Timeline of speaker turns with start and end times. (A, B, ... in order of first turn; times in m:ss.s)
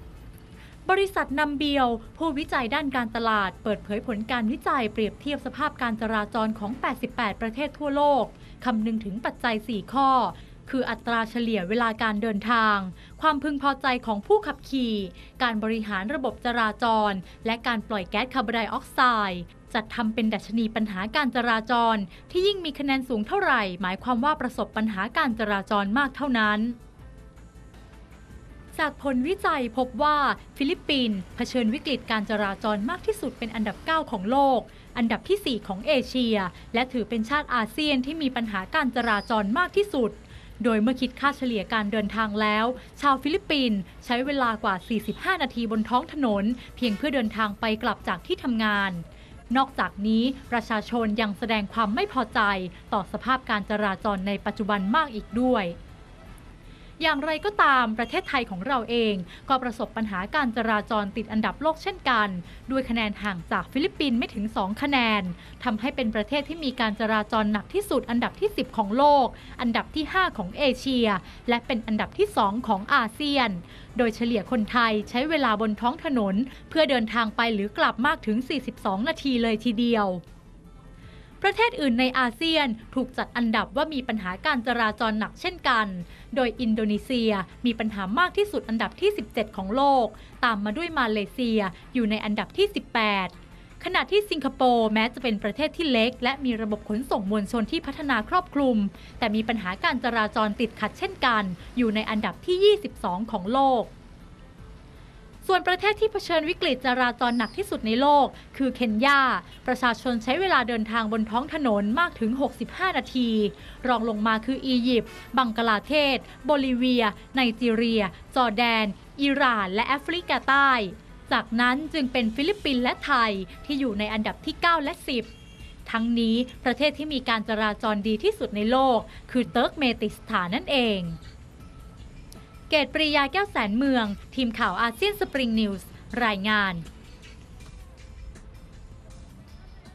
0:00.9-0:26.8 A
0:28.7-0:55.8 A
0:57.0-1:20.2 A
1:21.4-1:43.9 A
1:45.4-2:05.3 A
2:05.9-2:11.2 A
2:12.7-2:16.8 A